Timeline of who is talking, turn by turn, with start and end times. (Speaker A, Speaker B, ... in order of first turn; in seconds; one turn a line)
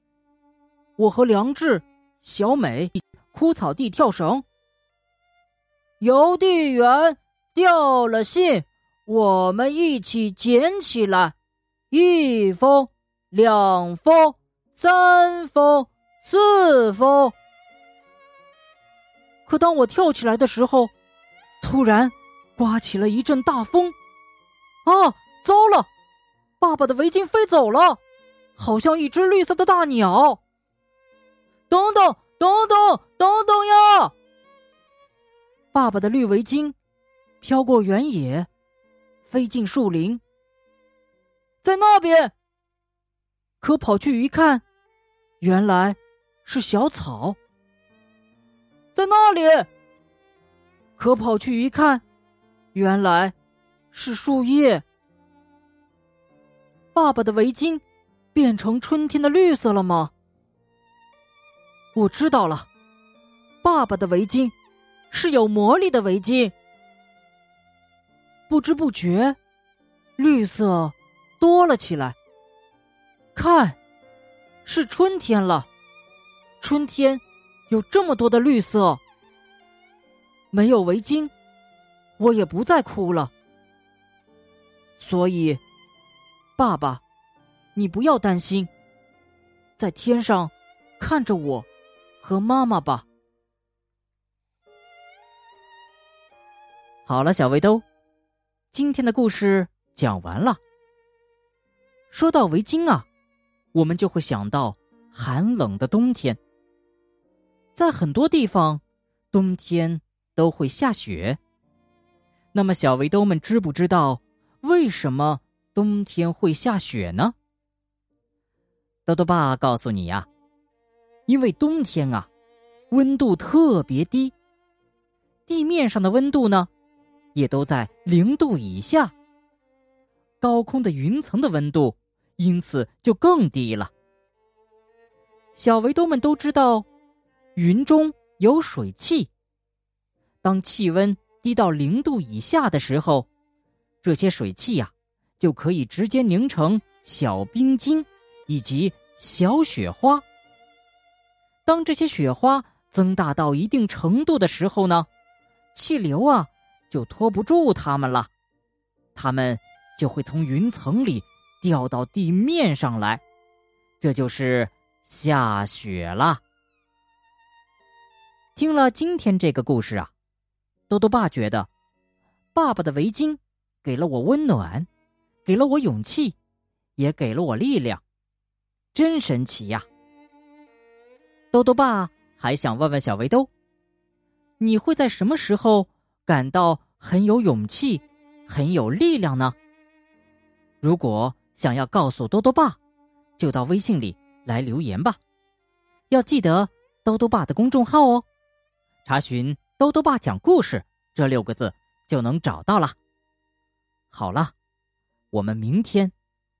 Speaker A: 1.0-4.4
Speaker A: 6.0-11.3
Speaker A: 11.9-17.3
Speaker A: 19.4-20.9
Speaker A: 21.6-23.9
Speaker A: 24.8-25.9
Speaker A: 26.6-28.0
Speaker A: 28.6-30.4
Speaker A: 31.7-34.1
Speaker A: 35.7-36.8
Speaker A: 37.4-38.5
Speaker A: 39.3-40.2
Speaker A: 41.6-42.3
Speaker A: 43.6-44.6
Speaker A: 45.4-47.4
Speaker A: 48.9-49.7
Speaker A: 51.0-52.0
Speaker A: 52.7-53.3
Speaker A: 53.9-54.8
Speaker A: 56.9-57.8
Speaker A: 58.3-60.1
Speaker A: 61.9-62.7
Speaker A: 63.6-64.5
Speaker A: 65.1-66.5
Speaker A: 68.5-69.4
Speaker A: 70.2-72.2
Speaker A: 73.3-73.8
Speaker A: 74.6-75.7
Speaker A: 76.6-79.0
Speaker A: 80.5-81.3
Speaker A: 82.2-83.3
Speaker A: 85.0-85.6
Speaker A: 86.6-87.0
Speaker A: 87.7-88.7
Speaker A: 89.8-91.7
Speaker A: 92.2-93.0
Speaker A: 97.0-97.8
Speaker A: 98.7-100.6
Speaker A: 102.1-103.1
Speaker A: 103.7-106.4
Speaker A: 107.7-111.4
Speaker A: 112.5-117.3
Speaker A: 119.0-120.3
Speaker A: 121.3-122.3
Speaker A: 122.9-124.3
Speaker A: 125.5-126.7
Speaker A: 127.3-129.1
Speaker A: 130.4-133.9
Speaker A: 135.5-136.9
Speaker A: 137.5-139.3
Speaker A: 140.4-143.3
Speaker A: 144.0-150.2
Speaker A: 151.7-155.1
Speaker A: 155.7-158.3
Speaker A: 159.1-163.2
Speaker A: 164.0-166.4
Speaker A: 168.6-170.1
Speaker A: 170.9-171.7
Speaker A: 172.5-174.9
Speaker A: 175.4-176.4
Speaker A: 177.0-178.0
Speaker A: 178.9-179.9
Speaker A: 181.5-183.5
Speaker A: 184.6-189.6
Speaker A: 190.8-192.8
Speaker A: 193.4-195.2
Speaker A: 196.1-198.2
Speaker A: 199.0-202.9
Speaker A: 204.1-204.5
Speaker A: 205.3-206.1